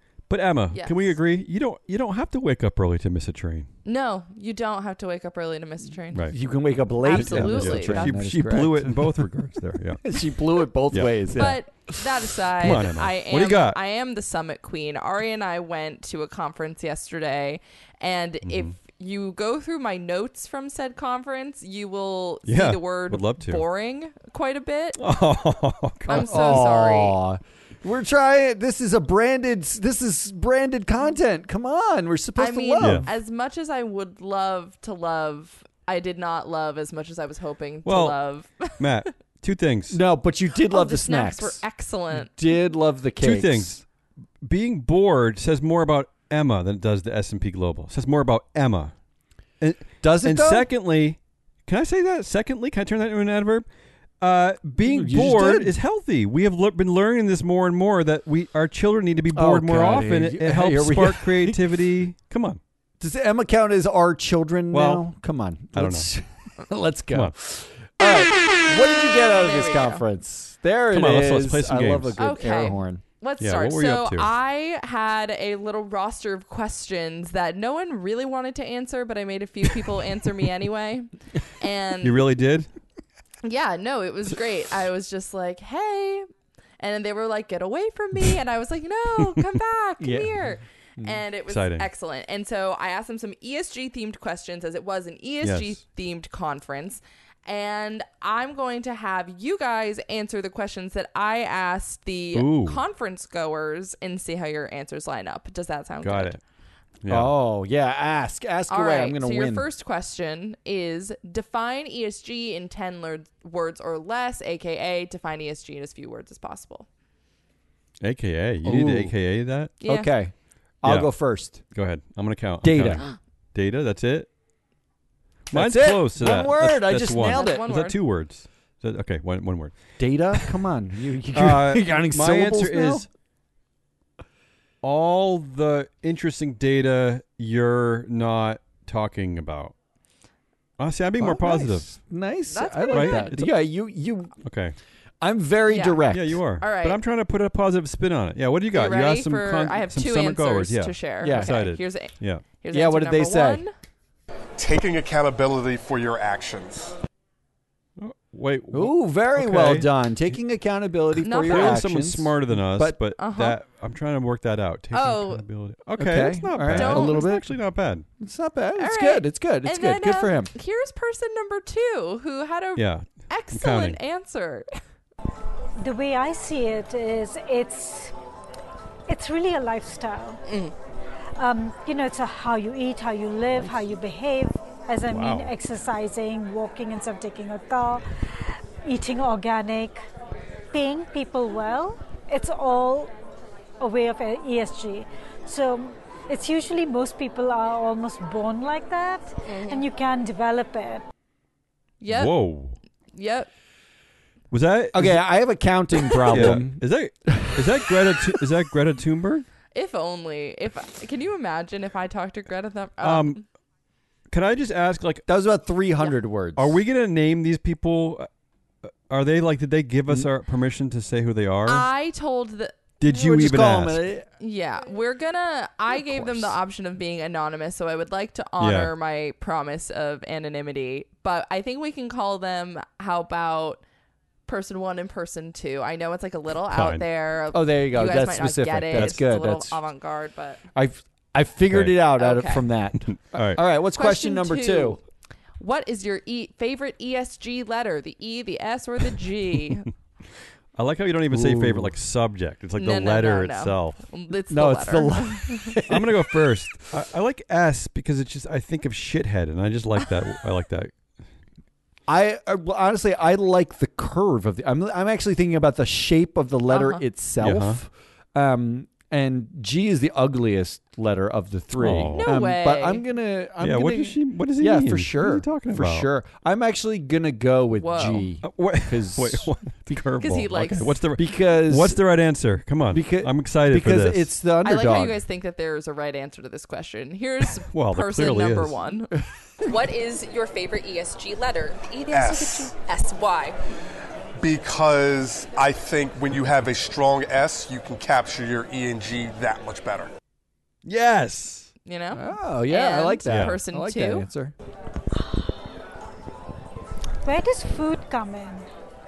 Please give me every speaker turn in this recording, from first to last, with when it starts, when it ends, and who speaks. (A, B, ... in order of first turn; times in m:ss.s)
0:00.3-0:03.7 A
0:00.7-0:01.2 B
0:03.8-0:06.3 B
0:06.3-0:09.3 C
0:07.0-0:08.1 B
0:07.1-0:10.2 A
0:10.0-0:11.6 C
0:10.9-0:11.5 A
0:11.4-0:25.0 B
0:12.6-0:13.8 A
0:18.4-0:18.7 A
0:22.4-0:23.6 A
0:25.0-0:26.6 A
0:26.0-0:33.1 C
0:26.1-0:27.2 B
0:32.4-0:38.8 B
0:32.8-0:33.1 A
0:37.8-0:38.2 A
0:38.8-0:40.0 A
0:39.9-0:43.8 C
0:40.7-0:42.4 B
0:43.2-0:43.8 A
0:44.4-0:48.9 A
0:49.6-0:53.6 A
0:50.0-0:50.7 C
0:54.2-1:02.6 A
0:54.8-0:55.7 C
0:59.3-1:01.6 C
1:03.0-1:13.0 C
1:04.7-1:05.0 A
1:05.7-1:06.1 A
1:09.2-1:10.0 B
1:10.9-1:12.2 A
1:12.2-1:22.2 B
1:13.4-1:14.3 A
1:22.0-1:22.7 A
1:23.4-1:26.3 B
1:26.8-1:46.4 B
1:30.0-1:30.4 C
1:31.5-1:31.9 A
1:35.4-1:35.8 A
1:42.3-1:42.8 A
1:46.0-1:46.4 A
1:47.0-1:47.3 A
1:47.1-1:49.6 C
1:48.7-1:56.9 B
1:58.0-1:59.7 A
1:58.6-1:59.1 C
1:59.8-2:00.1 B
1:59.8-2:01.6 C
2:00.8-2:04.3 A
2:02.6-2:03.0 C
2:05.5-2:07.6 C
2:05.5-2:09.8 A
2:07.2-2:08.0 B
2:10.0-2:13.1 C
2:11.3-2:13.1 A
2:14.8-2:19.7 A
2:20.8-2:21.9 A
2:21.2-2:24.3 C
2:22.5-2:23.3 B
2:22.9-2:23.5 A
2:24.4-2:24.8 A
2:25.2-2:26.4 C
2:25.7-2:27.0 B
2:26.1-2:32.4 A
2:28.7-2:33.7 B
2:31.2-2:31.5 C
2:32.7-2:33.6 C
2:34.6-2:36.9 D
2:38.0-2:39.9 A
2:38.7-2:43.0 C
2:41.2-2:41.8 B
2:41.4-2:48.0 A
2:43.2-2:43.6 B
2:44.9-2:45.4 B
2:46.0-2:47.5 C
2:46.7-2:47.3 B
2:48.2-2:50.5 C
2:48.8-2:54.7 B
2:52.8-2:54.0 A
2:55.8-2:58.1 E
2:59.1-3:00.4 E
3:00.5-3:00.7 B
3:01.4-3:10.0 E
3:05.1-3:05.5 A
3:10.7-3:13.1 E
3:13.8-3:21.0 E
3:19.5-3:19.8 B
3:22.0-3:22.3 B
3:22.1-3:22.8 A
3:23.1-3:23.5 B
3:24.5-3:25.3 A
3:24.9-3:28.4 C
3:26.3-3:29.5 A
3:29.7-3:33.4 B
3:33.0-3:33.4 A
3:34.3-3:35.2 A
3:35.3-3:36.7 C
3:36.6-3:38.3 A
3:39.1-3:41.9 A
3:41.6-3:42.8 B
3:43.0-3:44.0 A
3:43.0-3:44.3 C
3:44.4-3:53.8 B
3:48.6-3:48.9 A
3:54.5-4:00.6 B
3:56.7-3:57.0 A
3:57.5-3:59.8 C
3:58.9-3:59.2 A
4:00.7-4:05.0 C
4:01.7-4:02.0 A
4:02.2-4:02.7 B
4:03.0-4:03.6 A
4:04.0-4:05.0 B
4:05.6-4:09.9 B
4:10.7-4:14.0 A
4:11.3-4:11.9 C
4:12.8-4:15.7 B
4:14.5-4:16.8 C
4:15.8-4:20.9 A
4:22.1-4:39.5 C
4:26.7-4:27.0 B
4:27.4-4:27.8 A
4:31.8-4:32.3 A
4:32.1-4:33.0 B
4:33.6-4:36.1 A
4:37.8-4:38.3 B
4:38.4-4:44.3 A
4:40.2-4:41.0 B
4:41.2-4:42.0 C
4:42.9-4:45.2 C
4:44.6-4:53.6 B
4:47.6-4:48.8 A
4:52.1-4:52.7 D
4:54.4-5:00.1 D
5:00.8-5:01.7 A
5:01.8-5:04.2 B
5:02.1-5:04.5 C
5:03.2-5:03.6 A
5:07.2-5:08.7 E